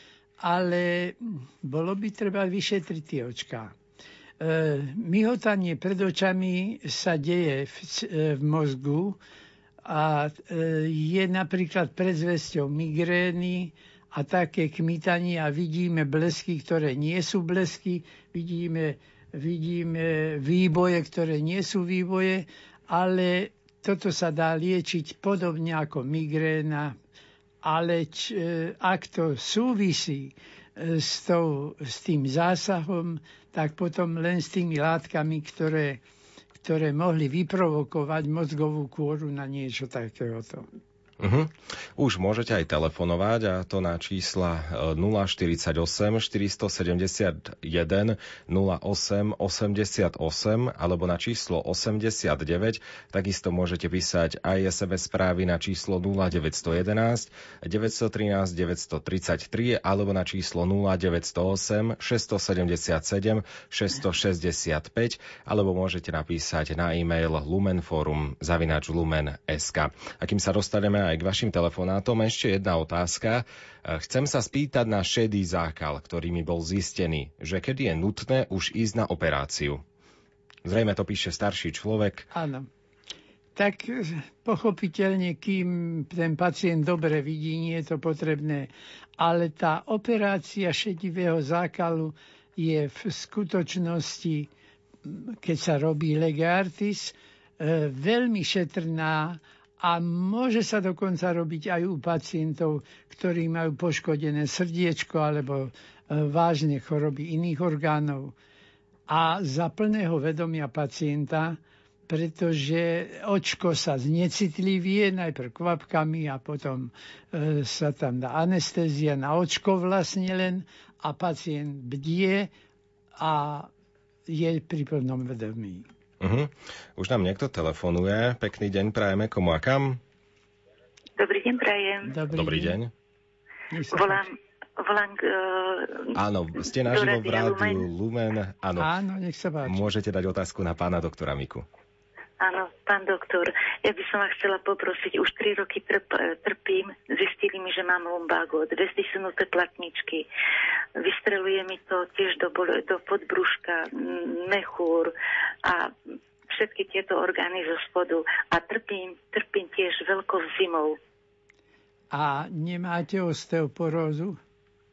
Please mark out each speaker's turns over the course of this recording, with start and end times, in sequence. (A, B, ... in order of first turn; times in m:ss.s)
0:00.4-0:03.8 A
0:04.4-0:09.2 A
0:09.8-0:27.0 A
0:27.6-0:36.0 A
0:36.6-0:40.7 A
0:41.2-1:19.8 B
1:20.6-1:22.3 B
1:22.3-1:22.7 A
1:23.6-1:34.5 A
1:35.0-1:48.4 A
1:49.1-2:02.5 A
2:03.2-2:03.7 A
2:04.3-2:05.9 A
2:06.2-2:10.0 B
2:11.2-2:12.1 C
2:12.0-2:12.8 A
2:12.3-2:12.9 B
2:13.7-2:14.3 A
2:13.9-2:16.1 C
2:16.2-2:18.9 B
2:16.7-2:17.9 C
2:18.8-2:19.9 A
2:19.7-2:21.6 B
2:22.4-2:30.3 C
2:31.0-2:35.1 C
2:35.6-2:35.9 C
2:36.5-2:41.0 C
2:42.1-2:44.4 A